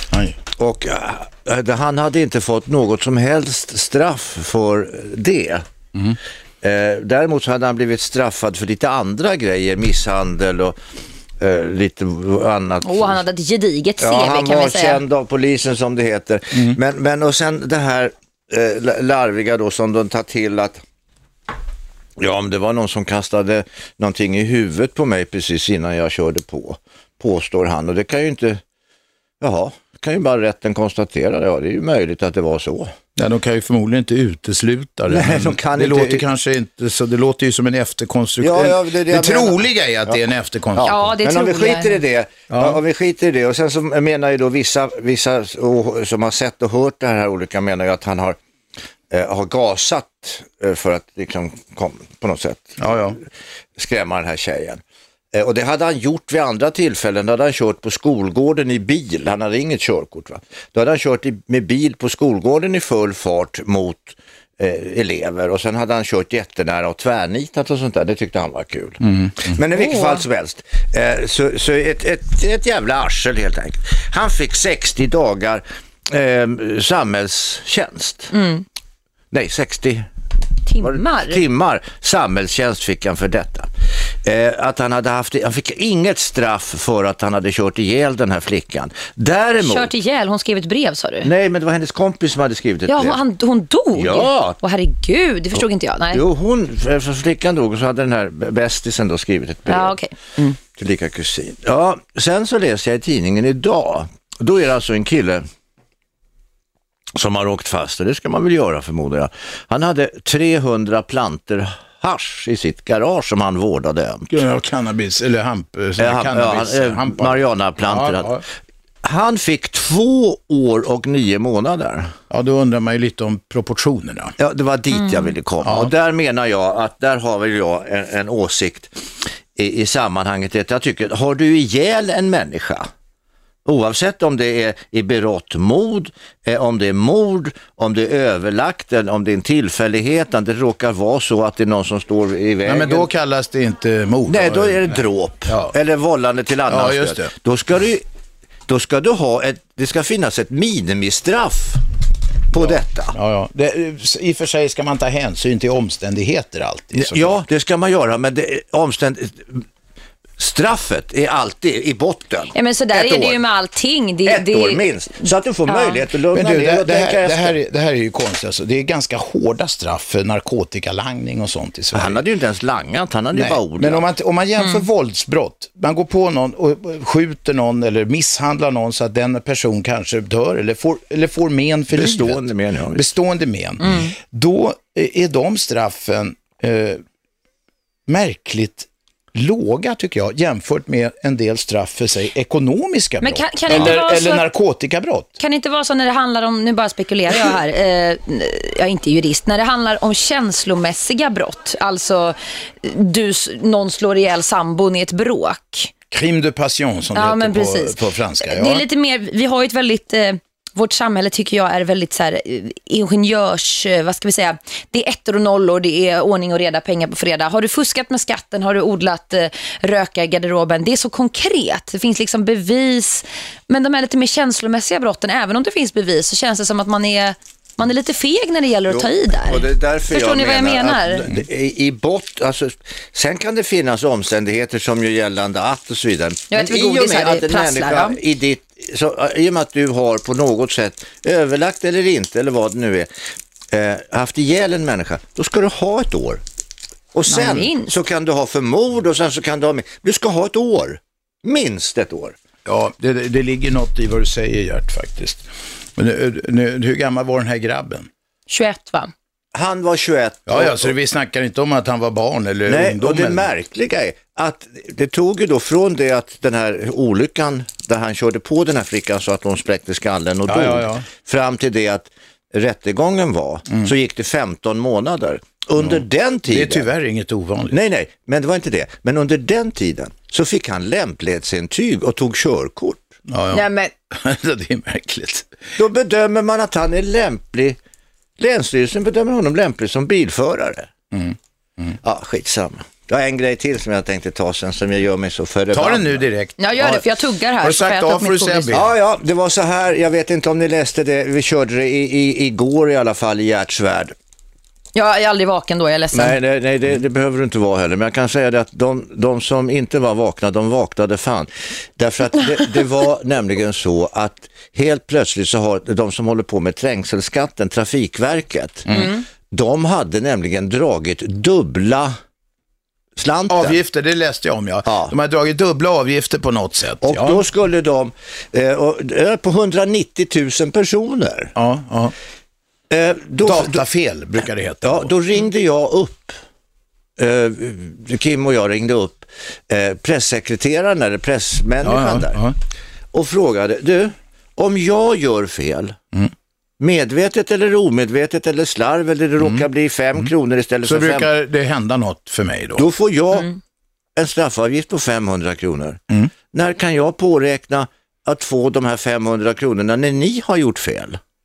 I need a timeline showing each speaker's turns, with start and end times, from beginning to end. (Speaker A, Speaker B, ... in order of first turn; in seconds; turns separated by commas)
Speaker A: 0.1-0.4, Speaker B: 0.6-5.7, Speaker B: 6.6-10.8, Speaker B: 11.4-13.2, Speaker C: 12.8-15.0, Speaker B: 14.0-20.8, Speaker B: 22.2-28.6, Speaker B: 29.4-32.9, Speaker A: 33.2-41.1, Speaker B: 35.1-36.2, Speaker B: 38.4-40.2, Speaker B: 40.8-48.4, Speaker C: 40.8-42.0, Speaker A: 42.5-42.8, Speaker B: 49.1-53.1, Speaker A: 52.8-53.2, Speaker B: 53.8-54.8, Speaker B: 55.3-78.3, Speaker A: 69.0-69.5, Speaker C: 69.7-70.2, Speaker C: 78.3-78.6, Speaker B: 79.3-80.1, Speaker C: 80.7-81.4, Speaker B: 80.8-83.7, Speaker B: 84.2-89.9, Speaker C: 89.6-91.3, Speaker B: 91.2-93.2, Speaker C: 92.9-96.2, Speaker B: 94.0-94.6, Speaker B: 96.1-100.0, Speaker C: 99.7-100.6, Speaker B: 100.7-105.4, Speaker B: 107.2-114.3, Speaker A: 114.3-118.4, Speaker B: 116.0-118.4, Speaker B: 119.0-122.1, Speaker A: 122.3-124.3, Speaker B: 124.4-128.9, Speaker C: 124.9-125.3, Speaker A: 125.6-125.9, Speaker B: 129.6-132.9, Speaker B: 133.7-143.1, Speaker A: 142.6-145.8, Speaker B: 144.3-148.0, Speaker A: 146.7-147.3, Speaker B: 148.7-151.8, Speaker B: 152.5-153.2, Speaker A: 152.5-157.4, Speaker B: 156.9-159.6, Speaker B: 160.4-163.4, Speaker C: 162.5-166.0, Speaker B: 164.3-167.6, Speaker A: 166.3-172.2, Speaker B: 171.9-174.0, Speaker A: 173.3-187.0, Speaker C: 174.6-174.8, Speaker B: 181.9-183.1, Speaker C: 183.8-184.2, Speaker A: 188.1-195.4, Speaker C: 193.2-194.5, Speaker B: 193.7-194.0, Speaker C: 195.4-205.9, Speaker A: 206.1-208.9, Speaker C: 207.1-231.3, Speaker B: 228.9-243.1, Speaker C: 236.5-238.2, Speaker B: 243.7-246.4, Speaker B: 247.1-252.4, Speaker C: 247.3-247.9, Speaker A: 252.7-255.4, Speaker A: 256.0-258.1, Speaker C: 258.5-259.1, Speaker B: 259.5-260.9, Speaker A: 260.5-263.5, Speaker B: 262.7-276.9, Speaker A: 270.5-271.1, Speaker A: 275.8-277.8, Speaker B: 277.7-283.1, Speaker A: 283.3-285.5, Speaker C: 283.5-283.9, Speaker B: 285.8-287.8, Speaker B: 288.4-290.9, Speaker A: 291.1-292.0, Speaker B: 292.0-296.2, Speaker A: 295.7-297.1, Speaker C: 296.6-298.8, Speaker A: 297.6-298.9, Speaker B: 298.7-304.1, Speaker C: 304.9-306.4, Speaker B: 306.1-322.1, Speaker B: 323.2-323.8, Speaker A: 323.5-327.4, Speaker B: 324.9-325.1, Speaker B: 327.0-331.5, Speaker A: 331.6-332.1, Speaker B: 332.9-333.8, Speaker A: 333.4-335.1, Speaker B: 334.8-336.4, Speaker B: 337.2-342.4, Speaker A: 341.8-342.6, Speaker B: 343.1-346.0, Speaker B: 346.8-351.3, Speaker A: 349.4-350.3, Speaker A: 350.8-352.9, Speaker B: 352.8-353.5, Speaker B: 354.2-361.2